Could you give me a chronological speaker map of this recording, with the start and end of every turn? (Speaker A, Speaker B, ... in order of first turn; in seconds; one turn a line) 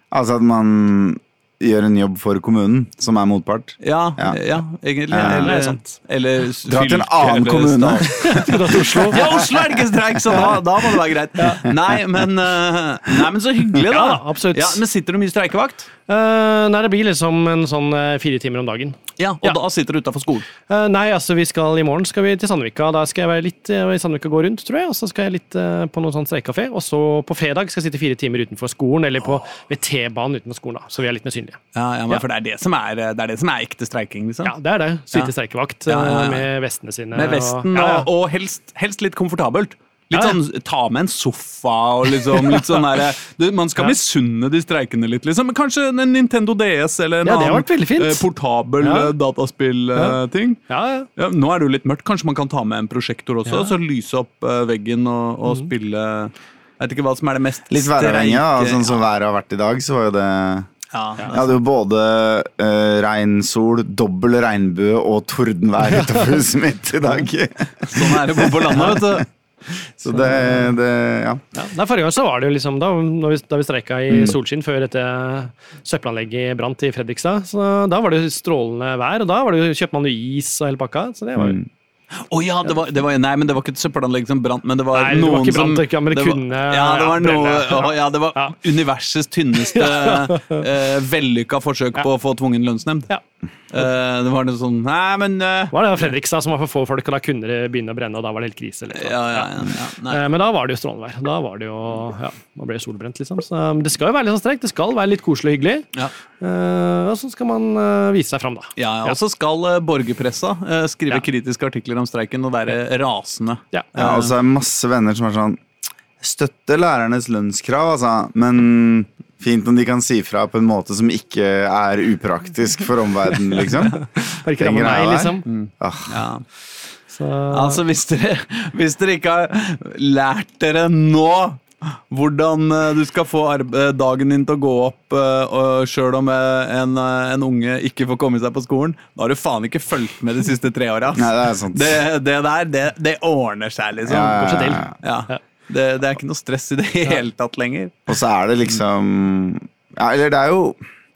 Speaker A: 0.1-4.4
Speaker B: 3.8-15.9
Speaker A: 5.1-5.5
Speaker C: 5.2-6.0
Speaker A: 6.7-9.6
Speaker C: 8.3-9.3
Speaker C: 11.4-11.6
Speaker C: 13.9-14.8
Speaker C: 16.1-19.6
Speaker B: 19.2-20.5
Speaker C: 20.7-32.2
Speaker B: 31.8-34.5
Speaker C: 34.5-38.1
Speaker B: 35.9-36.5
Speaker B: 37.1-50.6
Speaker C: 42.2-42.8
Speaker C: 47.2-48.2
Speaker C: 48.8-49.1
Speaker C: 50.0-51.1
Speaker B: 51.2-59.0
Speaker C: 53.5-53.7
Speaker A: 57.7-60.7
Speaker B: 60.9-61.6
Speaker A: 61.3-69.2
Speaker C: 65.9-66.3
Speaker B: 67.9-69.3
Speaker A: 69.8-71.4
Speaker C: 70.2-70.7
Speaker C: 71.6-81.6
Speaker A: 74.1-74.4
Speaker A: 81.4-81.7
Speaker B: 82.2-93.1
Speaker C: 84.9-88.5
Speaker C: 89.6-90.6
Speaker B: 93.7-95.8
Speaker C: 95.7-105.9
Speaker B: 98.9-100.2
Speaker C: 106.4-109.2
Speaker B: 108.8-114.3
Speaker A: 114.0-115.6
Speaker A: 116.2-126.3
Speaker C: 124.2-125.5
Speaker B: 125.5-126.5
Speaker C: 127.1-127.8
Speaker B: 127.5-144.5
Speaker A: 141.2-142.0
Speaker A: 144.1-144.9
Speaker C: 144.3-145.4
Speaker B: 145.0-148.0
Speaker A: 148.1-150.8